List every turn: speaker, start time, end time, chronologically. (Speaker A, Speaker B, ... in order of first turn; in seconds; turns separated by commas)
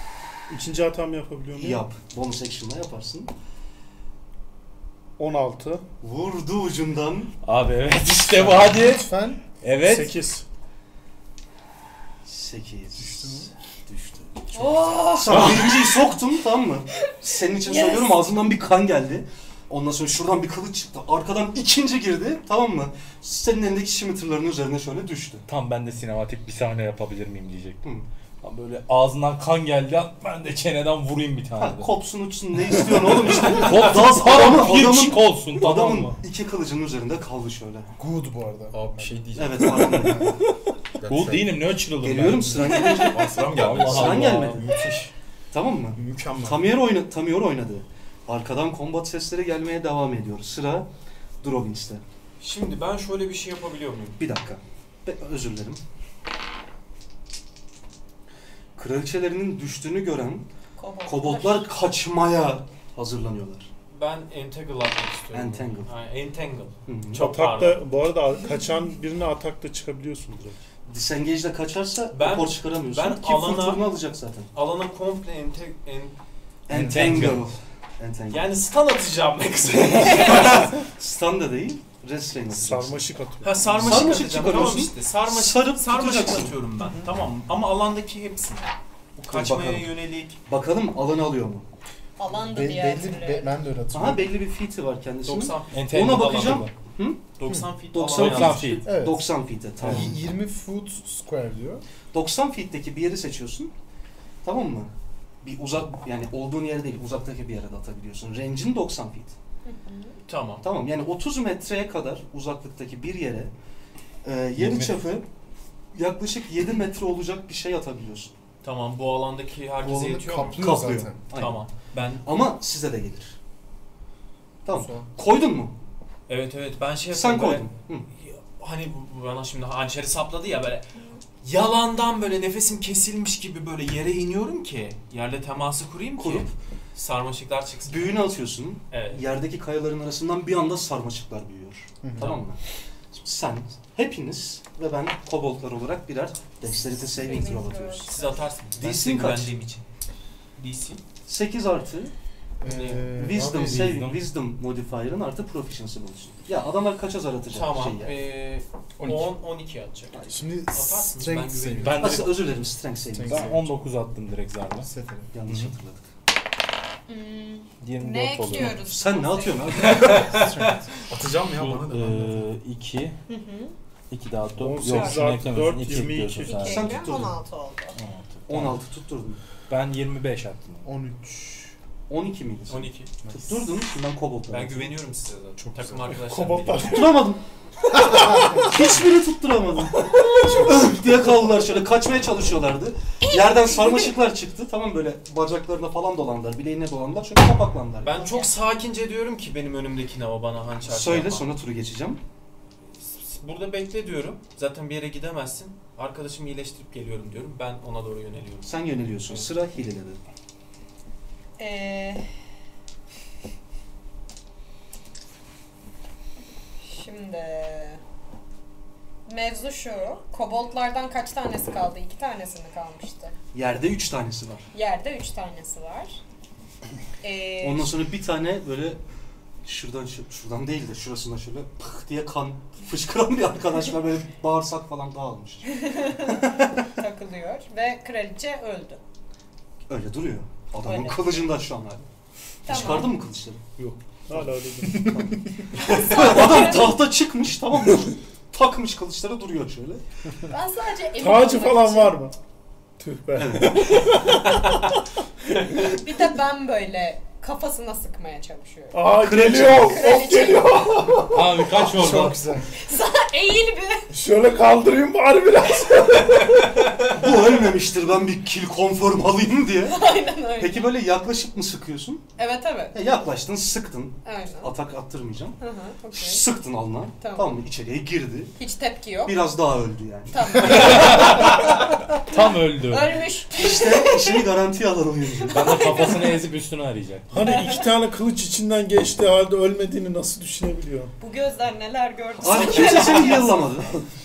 Speaker A: 0.5-1.8, Speaker B: 1.6-3.3, Speaker A: 5.2-5.8, Speaker B: 6.0-7.3, Speaker C: 7.4-9.1, Speaker D: 8.3-9.4, Speaker C: 9.6-10.2, Speaker A: 9.8-10.4, Speaker B: 12.2-25.4, Speaker D: 13.0-13.5, Speaker E: 14.5-16.0, Speaker C: 15.3-15.6, Speaker E: 17.6-18.2, Speaker C: 25.5-27.8, Speaker C: 28.4-31.9, Speaker B: 31.6-37.9, Speaker C: 32.7-36.2, Speaker D: 38.0-39.2, Speaker F: 38.7-40.1, Speaker B: 39.4-40.4, Speaker D: 39.9-40.4, Speaker F: 41.0-41.5, Speaker C: 41.1-42.8, Speaker B: 42.0-44.6, Speaker E: 42.6-43.3, Speaker F: 43.0-45.1, Speaker C: 43.5-44.7, Speaker B: 45.5-50.9, Speaker F: 45.9-46.8, Speaker B: 51.4-52.0, Speaker G: 52.4-54.2, Speaker B: 54.2-55.8, Speaker B: 58.8-60.5, Speaker E: 60.8-61.7, Speaker B: 61.0-63.7, Speaker G: 63.9-67.8, Speaker B: 65.3-65.9, Speaker B: 66.8-67.3, Speaker A: 67.1-70.6, Speaker B: 70.9-74.5, Speaker G: 72.1-73.9, Speaker G: 74.5-76.2, Speaker B: 76.7-78.5, Speaker C: 76.7-77.5, Speaker G: 78.3-80.8, Speaker B: 80.0-83.1, Speaker A: 82.5-84.3, Speaker G: 83.4-90.4, Speaker B: 83.8-86.5, Speaker B: 89.3-91.7, Speaker E: 92.2-93.5, Speaker D: 92.5-94.3, Speaker B: 93.9-97.2, Speaker G: 95.2-96.2, Speaker C: 95.7-96.7, Speaker G: 97.4-98.8, Speaker B: 97.9-100.2, Speaker C: 98.1-98.9, Speaker D: 98.8-99.3, Speaker D: 99.8-101.8, Speaker B: 102.1-103.7, Speaker B: 104.4-109.3, Speaker E: 109.7-110.2, Speaker G: 110.3-110.6, Speaker B: 110.6-113.5, Speaker B: 114.2-115.2, Speaker C: 114.6-115.0, Speaker B: 115.9-118.3, Speaker G: 118.6-122.3, Speaker D: 119.8-121.2, Speaker B: 120.3-123.4, Speaker B: 124.6-125.7, Speaker D: 124.7-125.0, Speaker G: 126.3-138.2, Speaker B: 127.1-128.1, Speaker B: 136.2-136.5, Speaker B: 137.8-149.5, Speaker G: 138.9-139.2, Speaker D: 142.0-142.4, Speaker E: 146.6-148.3, Speaker G: 148.1-149.8, Speaker G: 150.6-151.0, Speaker B: 151.3-152.1, Speaker D: 152.6-154.1, Speaker G: 152.6-153.0, Speaker B: 153.1-158.1, Speaker C: 153.4-154.2, Speaker G: 157.5-162.1, Speaker F: 159.0-159.3, Speaker D: 160.2-162.2, Speaker C: 161.8-162.4, Speaker B: 162.0-163.5, Speaker D: 163.1-163.8, Speaker C: 163.3-164.9, Speaker D: 164.8-165.3, Speaker B: 165.3-166.1, Speaker C: 165.5-165.7, Speaker E: 167.1-170.2, Speaker C: 167.8-168.8, Speaker B: 168.7-170.6, Speaker G: 169.9-170.6, Speaker D: 170.3-170.9, Speaker F: 171.1-172.5, Speaker C: 171.5-173.2, Speaker E: 173.3-173.7, Speaker C: 174.1-177.2, Speaker A: 174.6-176.7, Speaker E: 174.9-175.2, Speaker E: 176.4-178.0, Speaker B: 176.6-177.4, Speaker C: 178.0-178.8, Speaker B: 178.5-179.4, Speaker C: 179.7-180.9, Speaker D: 180.8-181.7, Speaker B: 182.1-185.0, Speaker G: 182.7-183.1, Speaker D: 183.2-183.7, Speaker G: 184.5-186.9, Speaker D: 185.6-186.1, Speaker A: 186.2-187.3, Speaker B: 186.8-187.4, Speaker G: 188.0-188.8, Speaker B: 188.0-198.2, Speaker D: 188.1-188.4, Speaker E: 190.1-190.9, Speaker E: 193.3-194.1, Speaker G: 198.0-201.4, Speaker E: 198.1-198.5, Speaker B: 200.8-202.2, Speaker G: 202.9-208.7, Speaker B: 208.6-210.2, Speaker E: 211.6-212.2, Speaker E: 216.8-218.0, Speaker E: 219.2-223.3, Speaker B: 223.5-224.7, Speaker E: 224.7-226.2, Speaker E: 227.2-227.9, Speaker B: 227.6-229.0, Speaker B: 229.6-235.8, Speaker E: 235.7-239.0, Speaker B: 239.9-242.1, Speaker E: 240.8-241.5, Speaker E: 242.6-243.2, Speaker B: 242.7-250.0, Speaker A: 244.3-245.2, Speaker E: 245.8-247.0, Speaker E: 250.5-252.2, Speaker A: 251.2-252.3, Speaker A: 253.0-254.8, Speaker B: 253.3-254.1, Speaker E: 255.8-259.2, Speaker A: 258.9-261.5, Speaker B: 259.2-260.2, Speaker E: 259.8-261.0, Speaker C: 261.3-262.4, Speaker D: 261.8-262.7, Speaker E: 262.7-264.1, Speaker A: 264.1-266.9, Speaker B: 267.1-270.0, Speaker E: 269.8-271.0, Speaker B: 270.6-272.2, Speaker E: 272.4-273.0, Speaker B: 272.9-275.6, Speaker E: 274.2-274.7, Speaker E: 275.6-276.4, Speaker B: 276.1-278.5, Speaker E: 277.2-277.6, Speaker E: 278.6-279.4, Speaker B: 279.2-280.8, Speaker E: 280.3-284.5, Speaker G: 280.6-281.4, Speaker C: 280.8-281.4, Speaker C: 282.3-283.2, Speaker B: 283.5-285.6, Speaker E: 285.4-286.4, Speaker C: 285.5-287.5, Speaker A: 287.3-291.1, Speaker E: 287.4-287.8, Speaker E: 291.2-293.8, Speaker B: 292.4-293.9, Speaker G: 292.7-293.4